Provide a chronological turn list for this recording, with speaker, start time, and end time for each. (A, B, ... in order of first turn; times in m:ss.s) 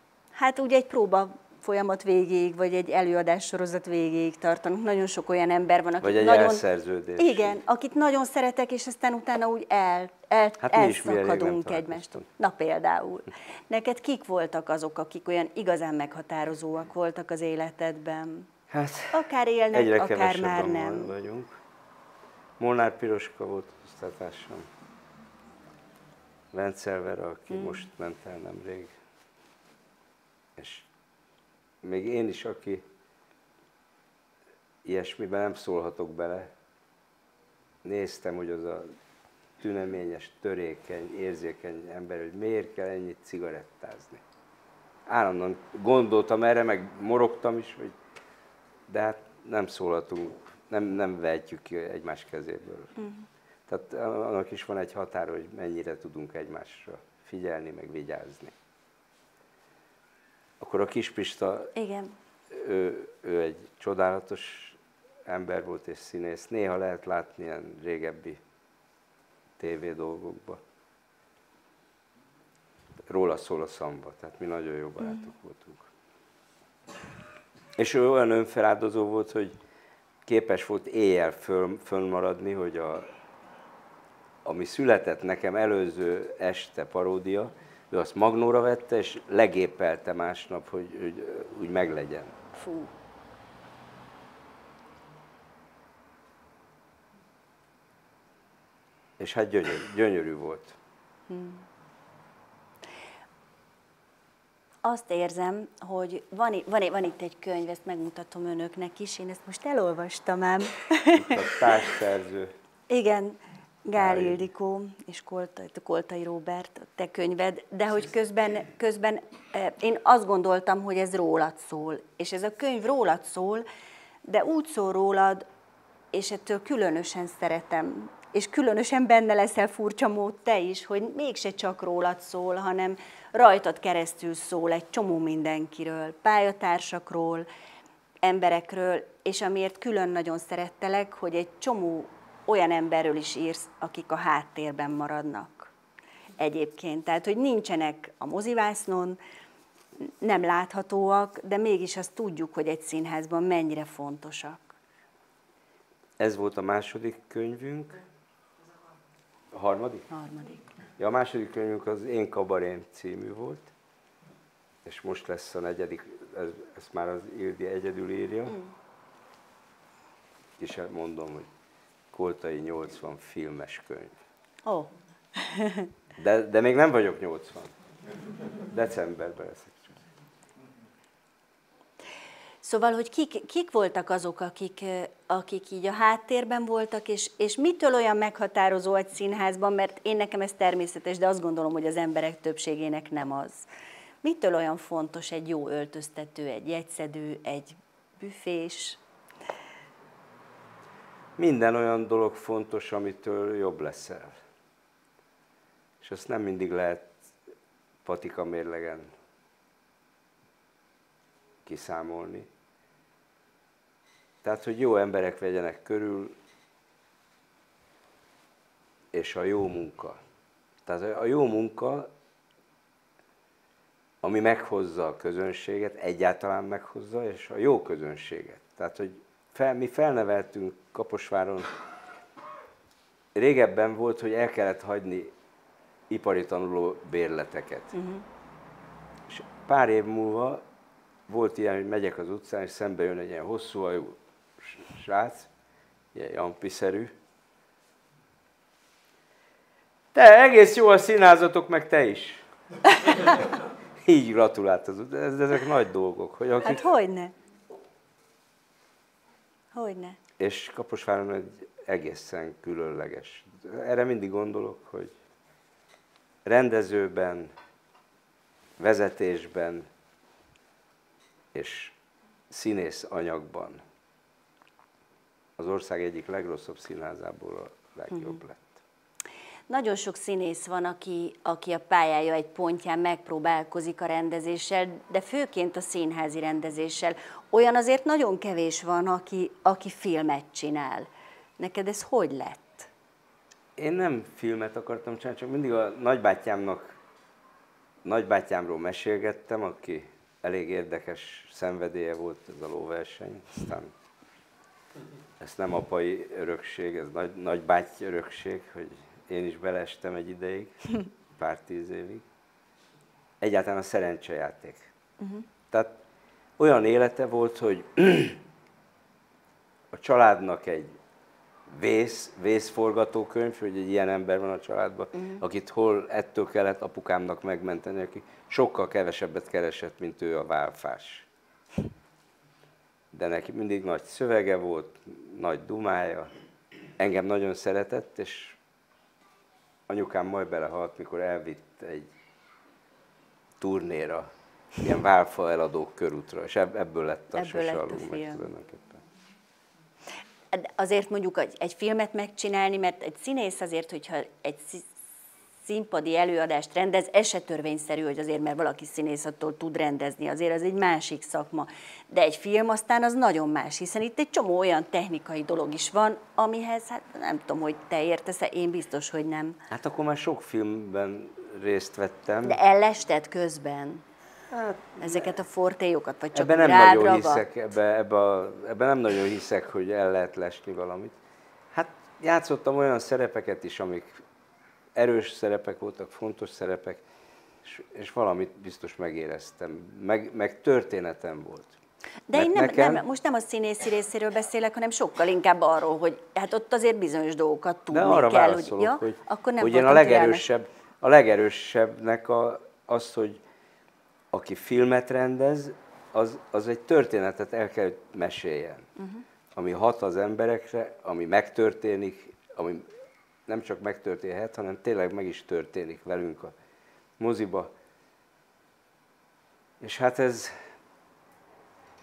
0:00.4-0:06.6 A
0:06.0-0:07.6 B
0:07.2-0:18.5 A
0:10.6-0:12.3 B
0:18.7-0:21.6 B
0:19.1-0:21.1 A
0:22.6-0:24.7 B
0:26.5-0:28.9 B
0:27.5-0:27.8 A
0:30.6-0:30.9 B
0:31.8-0:32.8 B
0:34.8-0:36.5 B
0:37.8-0:38.9 B
0:39.6-0:44.2 B
0:45.1-0:48.0 B
0:48.9-0:52.9 B
0:53.0-0:53.2 A
0:53.7-0:58.6 B
1:00.6-1:01.7 B
1:01.8-1:02.1 A
1:02.5-1:08.4 B
1:09.6-1:10.6 B
1:13.1-1:15.9 B
1:17.8-1:19.6 B
1:20.3-1:23.1 B
1:24.4-1:32.3 B
1:32.6-1:32.9 A
1:39.2-1:40.8 B
1:41.3-1:41.6 A
1:44.8-1:51.7 A
1:51.2-1:52.5 B
1:52.9-2:03.7 A
1:54.0-1:54.4 B
2:04.2-2:05.4 A
2:06.1-2:17.5 A
2:18.2-2:25.7 A
2:26.4-2:29.2 A
2:30.2-2:34.7 A
2:36.2-2:38.0 B
2:39.5-2:40.1 B
2:40.1-2:40.6 A
2:41.0-2:43.7 B
2:44.8-2:48.6 B
2:50.6-2:51.5 B
2:52.1-2:54.2 B
2:54.6-2:55.9 A
2:56.2-2:57.8 B
2:58.7-3:00.0 B
3:02.6-3:13.7 A
3:14.2-3:19.0 A
3:21.4-3:24.4 B
3:26.0-3:27.3 B
3:28.0-3:29.1 B
3:31.6-3:32.5 B
3:34.4-3:36.4 B
3:39.1-3:40.2 B
3:40.9-3:42.1 B
3:44.2-3:51.7 B
3:53.4-3:55.3 B
3:56.1-3:57.9 B
3:57.9-3:58.2 A
3:59.3-4:00.6 B
4:01.3-4:05.5 B
4:06.1-4:07.1 B
4:10.1-4:12.4 B
4:14.0-4:16.9 B
4:16.6-4:17.3 A
4:19.7-4:20.2 A
4:20.4-4:25.2 B
4:26.4-4:27.5 B
4:28.8-4:29.9 B
4:31.5-4:32.0 B
4:32.5-4:33.8 B
4:35.6-4:38.8 B
4:39.7-4:52.9 A
4:53.8-4:57.0 B
4:58.0-5:03.9 B
5:05.4-5:10.8 B
5:11.3-5:12.2 B
5:13.4-5:14.9 B
5:15.7-5:16.0 B
5:16.6-5:18.4 B
5:19.9-5:21.0 B
5:21.7-5:31.3 B
5:33.1-5:36.3 B
5:37.0-5:38.6 B
5:39.9-5:42.1 B
5:43.6-5:44.3 B
5:44.8-5:49.0 B
5:47.3-5:48.4 A
5:50.5-5:54.9 A
5:55.6-6:09.6 A
6:09.7-6:12.6 B
6:12.4-6:14.0 A
6:14.5-6:15.3 B
6:15.0-6:17.4 A
6:16.3-6:21.2 B
6:21.7-6:24.2 B
6:25.0-6:27.0 B
6:27.6-6:31.8 B
6:32.3-6:40.5 A
6:32.3-6:33.0 B
6:37.9-6:43.4 B
6:44.3-6:48.9 B
6:49.0-6:49.2 A
6:49.6-6:52.9 B
6:53.5-6:56.6 B
6:57.2-6:57.7 B
6:59.8-7:00.5 B